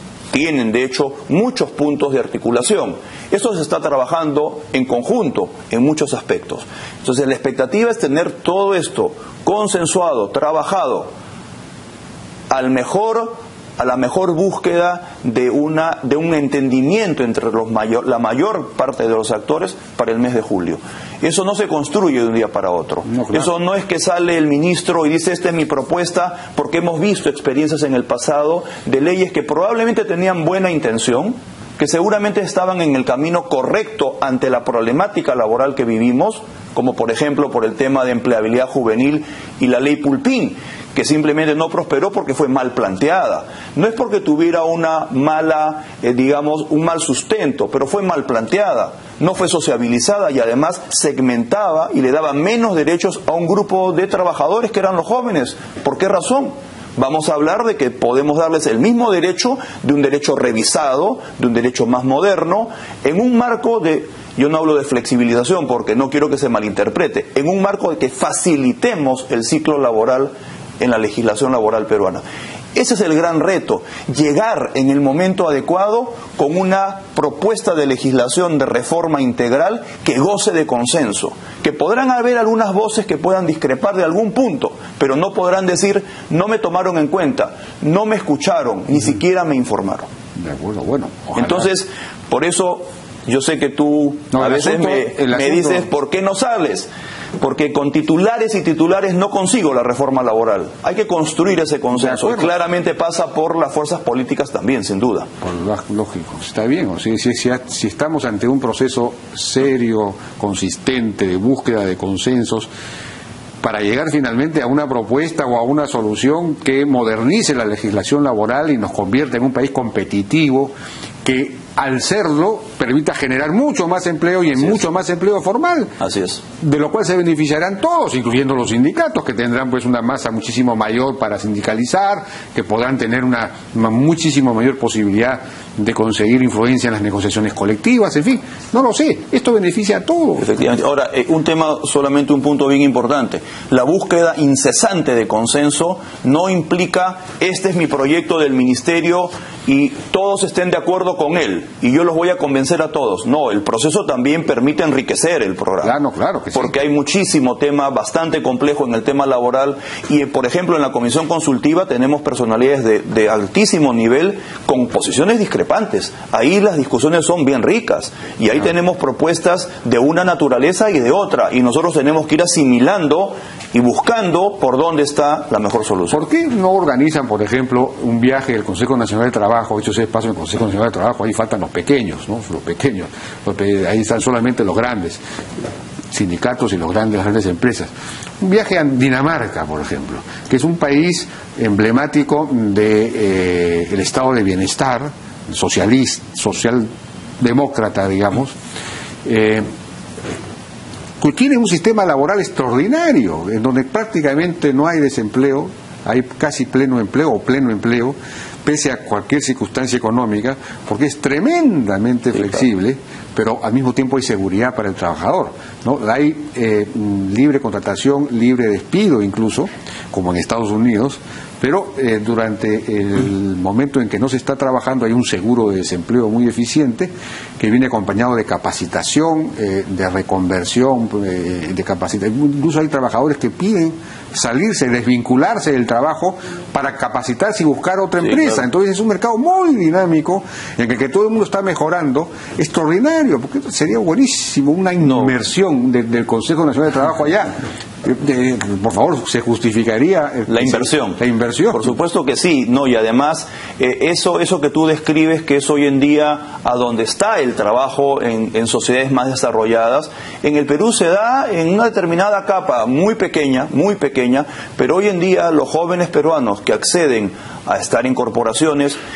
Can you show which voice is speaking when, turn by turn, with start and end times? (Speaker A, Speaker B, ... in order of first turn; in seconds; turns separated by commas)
Speaker A: 0.3-11.1, Speaker A: 12.5-72.2, Speaker B: 23.1-23.5, Speaker A: 72.7-90.1, Speaker B: 90.3-91.7, Speaker A: 91.3-105.3, Speaker B: 94.3-95.9, Speaker B: 101.9-102.5, Speaker B: 105.4-112.7, Speaker B: 113.6-125.9, Speaker A: 126.0-126.4, Speaker B: 126.6-140.5, Speaker A: 140.4-155.9, Speaker B: 155.8-156.7, Speaker A: 156.5-176.2, Speaker B: 176.1-185.2, Speaker B: 186.1-196.9, Speaker B: 197.4-198.5, Speaker B: 199.2-199.6, Speaker B: 201.2-247.5, Speaker A: 238.2-238.6, Speaker A: 245.0-245.3, Speaker B: 248.0-251.9, Speaker A: 250.5-269.0